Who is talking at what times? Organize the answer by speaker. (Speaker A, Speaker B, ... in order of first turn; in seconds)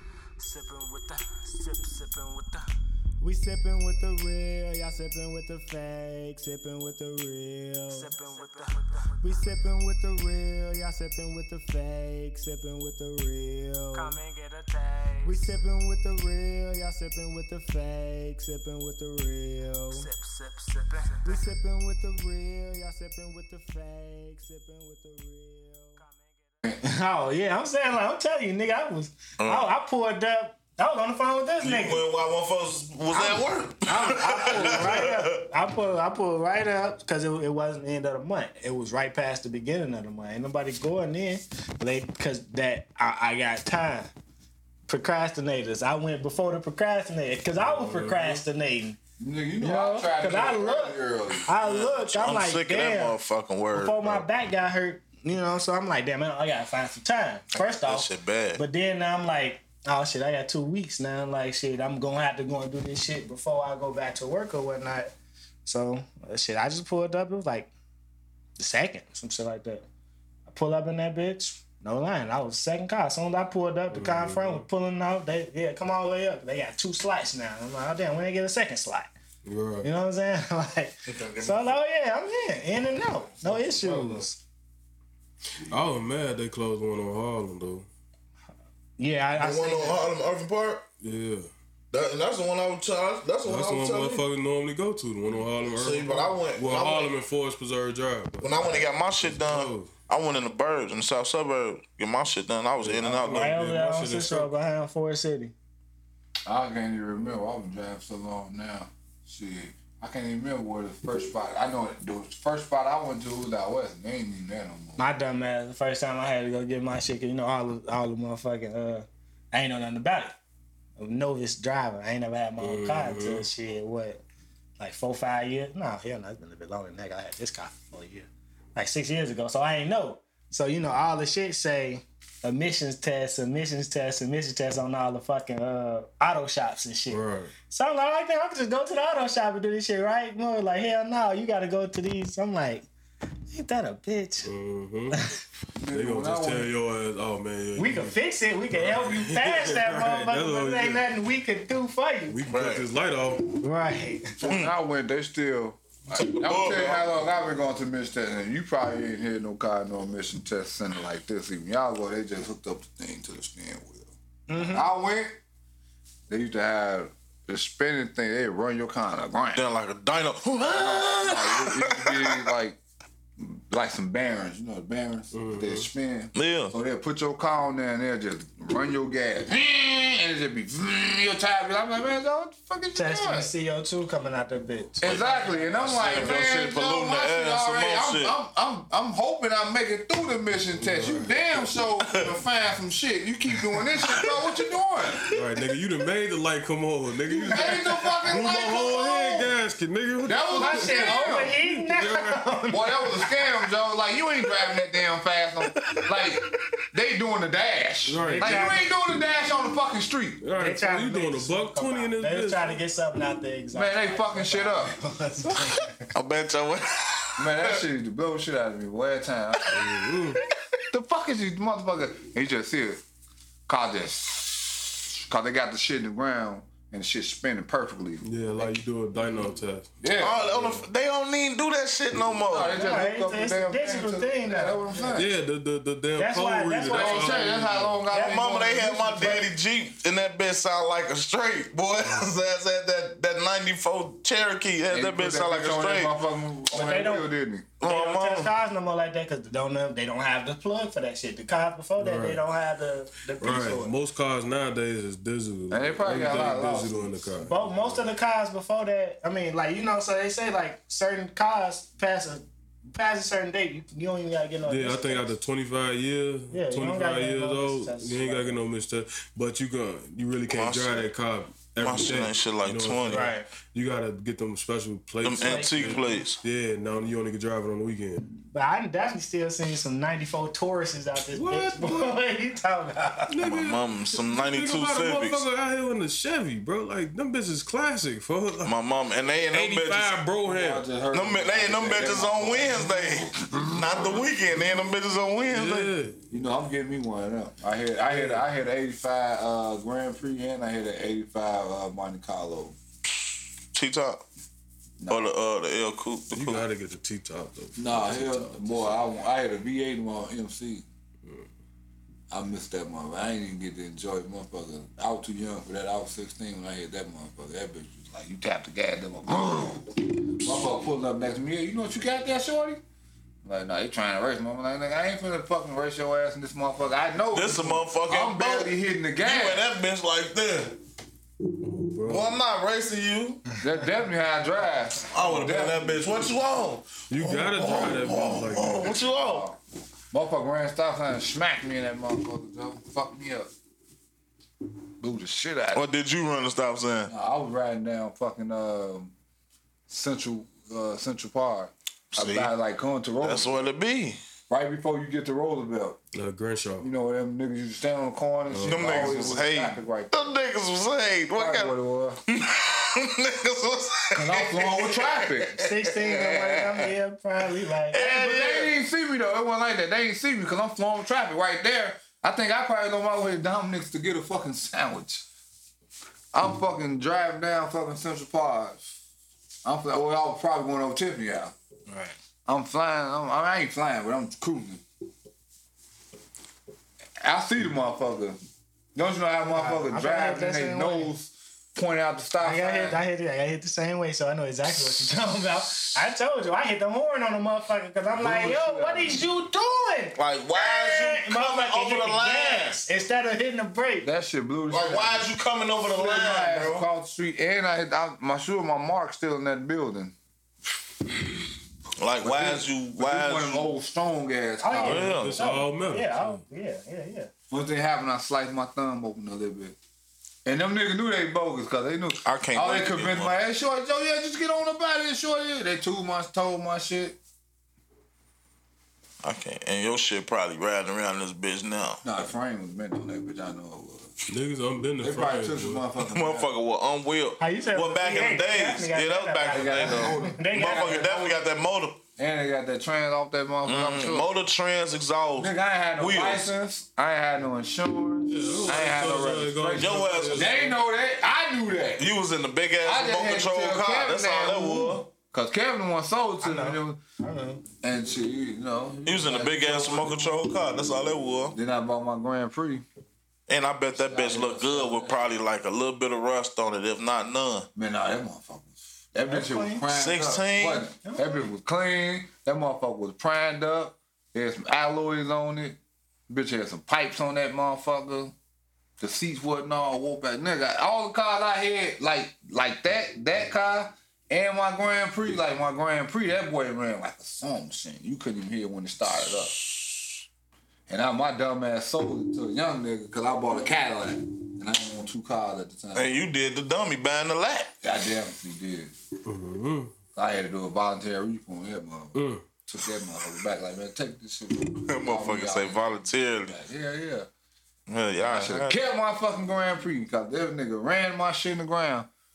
Speaker A: 0.4-2.6, 3.2-14.2, 15.2-20.1, 20.8-26.1, 26.8-32.0, 33.1-44.1, 44.9-49.0, 49.6-53.1, 53.7-65.1, 65.7-67.7, 68.6-69.8, 70.5-79.1, 79.8-84.4, 89.0-90.0, 103.0-105.5, 115.0-120.3, 121.0-124.2, 124.8-142.9, 143.5-144.5, 147.8-152.4, 153.5-154.4, 164.5-164.9, 182.9-186.2, 200.6-203.3, 208.2-208.9, 210.6-216.1, 232.7-235.2, 236.2-237.5, 238.1-239.4, 246.7-247.3, 247.8-253.9, 257.4-265.3, 266.5-268.6, 273.1-273.4, 275.4-276.2, 278.5-283.3, 365.6-368.1, 381.9-382.1, 389.5-391.1, 392.4-404.1, 414.6-417.3, 437.4-441.3, 456.4-457.6, 469.2-469.9, 471.0-471.5
Speaker B: 8.1-9.2, 13.9-15.6, 20.1-21.5
Speaker C: 29.4-29.7, 31.6-35.4, 51.6-54.2, 57.6-58.6, 81.0-81.7, 89.4-90.8, 91.9-94.2, 95.7-97.1, 98.4-103.5, 152.5-152.8, 154.4-154.7, 156.1-157.3, 169.6-172.5, 176.3-176.7, 185.8-188.3, 192.0-192.3, 193.5-194.5, 205.7-206.5, 216.1-217.8, 219.6-219.9, 230.2-232.8, 238.1-246.2, 247.8-248.5, 270.5-271.0, 271.8-273.3, 275.2-276.4, 283.4-285.4, 288.6-290.1, 291.1-295.9, 303.7-304.2, 305.1-306.6, 327.3-330.7, 332.1-333.4, 335.1-339.4, 345.7-347.1, 352.1-352.5, 353.2-354.2, 358.6-361.7, 362.3-366.4, 367.9-368.8, 400.1-402.8, 404.7-406.9, 412.0-413.7, 414.7-415.4, 422.2-423.4, 429.2-432.0, 436.0-442.0, 443.6-446.5, 449.8-450.6, 452.0-455.1, 459.0-461.6, 463.5-467.7, 469.9-470.9, 495.9-497.7, 504.9-506.6, 507.9-508.8
Speaker D: 47.6-48.4, 73.9-74.7, 79.4-79.9, 83.5-84.0, 85.7-87.9, 91.0-91.5, 93.4-99.9, 102.8-104.5, 122.6-123.4, 137.1-137.5, 144.4-145.2, 145.9-148.1, 148.7-151.0, 152.3-153.4, 175.3-175.9, 190.7-191.7, 195.3-202.4, 208.1-208.8, 210.4-212.8, 219.7-220.4, 228.2-229.9, 230.4-230.8, 235.1-238.0, 252.0-252.4, 253.4-258.0, 264.6-278.2, 281.3-282.1, 283.3-288.7, 289.5-290.8, 295.5-296.2, 298.0-298.4, 306.3-309.0, 331.6-332.3, 337.1-338.9, 356.1-356.9, 358.5-359.3, 414.9-416.4, 434.3-435.8, 448.3-450.8, 499.2-499.9, 502.1-502.4
Speaker E: 49.2-51.5, 106.5-115.0, 145.8-146.7, 154.4-165.4, 166.3-169.6, 170.6-172.8, 173.4-183.5, 185.0-195.2, 197.4-199.5, 200.2-201.6, 202.7-206.4, 206.9-210.4, 213.7-214.9, 217.4-219.7, 220.9-223.0, 223.7-228.7, 230.0-230.5, 232.4-235.3, 236.9-239.4, 244.9-247.7, 255.7-257.3, 290.4-294.2, 296.3-302.8, 305.0-305.3, 307.8-310.9, 312.3-322.8, 323.4-329.6, 333.6-336.0, 338.8-339.6, 340.1-343.5, 345.0-345.8, 347.1-349.1, 349.9-353.6, 354.5-356.0, 356.8-360.3, 361.3-362.2, 364.1-366.6, 368.0-375.2, 376.3-378.9, 379.6-381.5, 382.4-384.8, 387.2-388.4, 388.9-393.0, 398.2-399.2, 404.0-405.3, 405.8-410.1, 412.2-415.1, 417.5-419.8, 420.4-427.2, 432.0-434.1, 435.0-436.5, 439.5-441.4, 442.2-444.3, 445.4-452.1, 452.8-457.0, 457.8-460.4, 461.5-462.8, 463.9-465.3, 467.7-475.8, 476.3-478.3, 479.0-489.6, 490.9-496.1, 497.8-498.9, 500.1-507.3, 508.2-512.1